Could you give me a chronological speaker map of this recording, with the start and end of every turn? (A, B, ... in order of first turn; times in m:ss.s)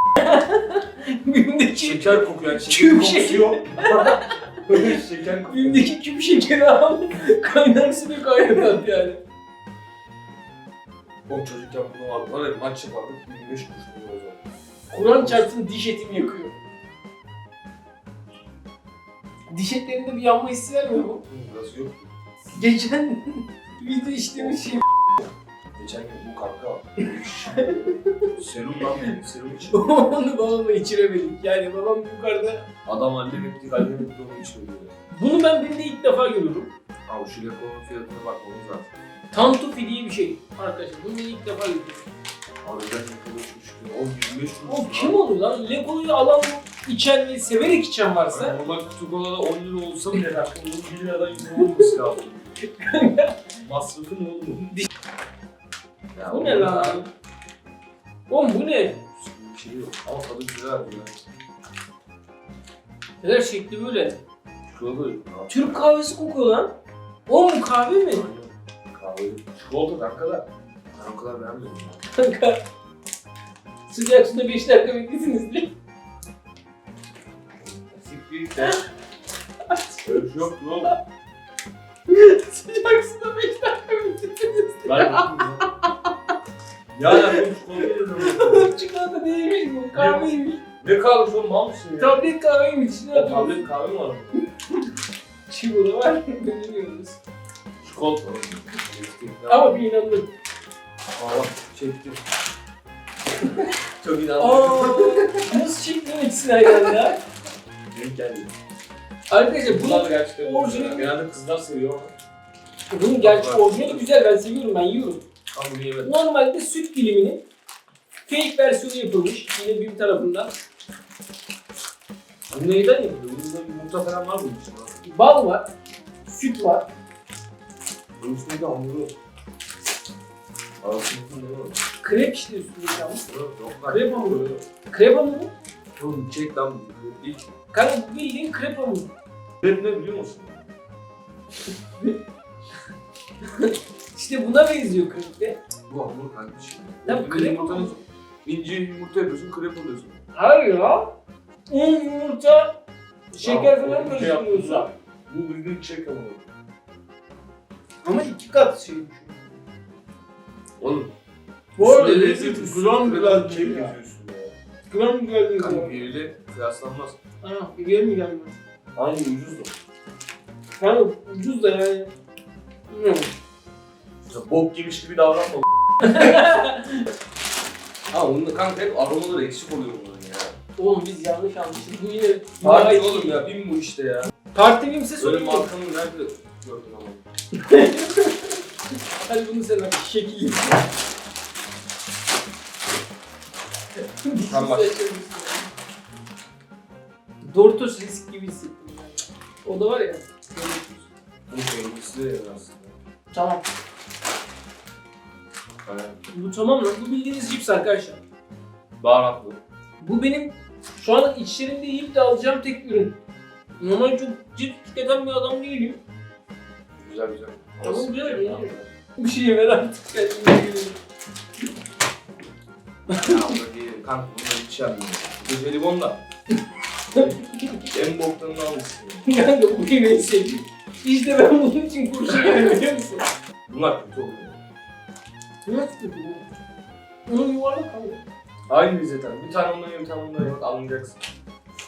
0:00.2-0:04.4 A
0:01.8-0:05.9 B
0:05.5-0:09.2 A
0:11.3-0:14.4 B
0:14.9-0:16.6 A
0:15.0-0:15.5 B
0:19.5-0:21.2 A
0:21.3-0:22.1 B
0:22.5-0:24.9 A
0:25.8-0:29.9 B
0:27.5-0:28.3 A
0:29.7-0:32.7 A
0:32.9-0:34.9 B
0:35.1-0:36.7 A
0:37.1-0:38.9 B
0:39.3-0:42.1 A
0:42.6-0:45.2 B
0:44.7-0:48.6 A
0:48.3-0:52.6 B
0:52.7-0:53.4 A
0:53.6-0:54.8 B
0:56.2-0:57.0 B
0:56.3-0:57.1 A
0:58.3-0:59.0 A
0:59.2-1:01.2 B
1:03.2-1:04.2 A
1:04.7-1:05.6 B
1:05.5-1:06.7 A
1:07.3-1:08.3 A
1:08.1-1:12.0 B
1:12.1-1:12.6 A
1:13.9-1:15.7 A
1:17.8-1:18.8 B
1:19.7-1:20.3 A
1:20.0-1:20.9 B
1:22.1-1:26.1 A
1:24.8-1:25.7 B
1:26.9-1:28.7 B
1:27.1-1:27.4 A
1:28.2-1:30.6 A
1:29.9-1:32.2 B
1:32.0-1:33.7 A
1:33.1-1:34.4 B
1:35.5-1:37.2 A
1:37.8-1:39.8 B
1:39.5-1:40.3 A
1:41.1-1:42.2 B
1:44.0-1:45.5 B
1:44.4-1:47.2 A
1:47.9-1:48.5 B
1:49.3-1:51.1 A
1:49.7-1:52.1 B
1:52.9-1:55.2 A
1:53.2-1:54.1 B
1:55.5-1:56.2 B
1:56.0-1:57.4 A
1:58.3-2:00.5 A
2:02.5-2:05.0 B
2:05.0-2:05.7 A
2:06.3-2:06.9 A
2:08.2-2:09.1 B
2:10.8-2:11.8 B
2:12.0-2:13.2 A
2:13.2-2:14.6 B
2:13.9-2:15.5 A
2:16.0-2:17.5 B
2:17.7-2:19.1 A
2:19.6-2:20.6 B
2:23.4-2:25.6 A
2:25.9-2:30.2 B
2:27.1-2:28.0 A
2:30.3-2:31.1 A
2:31.7-2:32.8 A
2:33.3-2:36.5 B
2:33.4-2:34.9 A
2:38.0-2:39.6 A
2:40.8-2:41.1 B
2:41.8-2:43.9 A
2:41.8-2:44.5 B
2:44.9-2:46.0 A
2:45.6-2:47.2 B
2:47.4-2:48.5 A
2:49.0-2:49.7 B
2:50.8-2:52.1 A
2:52.9-2:53.3 A
2:54.3-2:56.4 B
2:56.0-2:57.0 A
2:58.1-3:00.6 B
3:00.8-3:03.4 A
3:02.6-3:04.3 B
3:04.5-3:05.7 A
3:05.2-3:07.2 B
3:07.5-3:08.6 A
3:09.3-3:10.9 A
3:14.0-3:15.7 A
3:14.5-3:15.0 B
3:17.4-3:21.1 A
3:21.5-3:23.0 B
3:23.3-3:23.6 A
3:25.8-3:26.2 B
3:26.3-3:28.2 A
3:29.0-3:29.6 B
3:30.0-3:33.2 A
3:33.8-3:36.0 A
3:37.0-3:38.9 B
3:37.8-3:41.0 A
3:43.1-3:46.2 B
3:47.1-3:47.8 A
3:47.1-3:49.2 B
3:49.2-3:53.3 A
3:53.7-3:54.6 B
3:55.7-3:56.4 A
3:57.3-3:58.2 A
3:58.7-4:01.2 B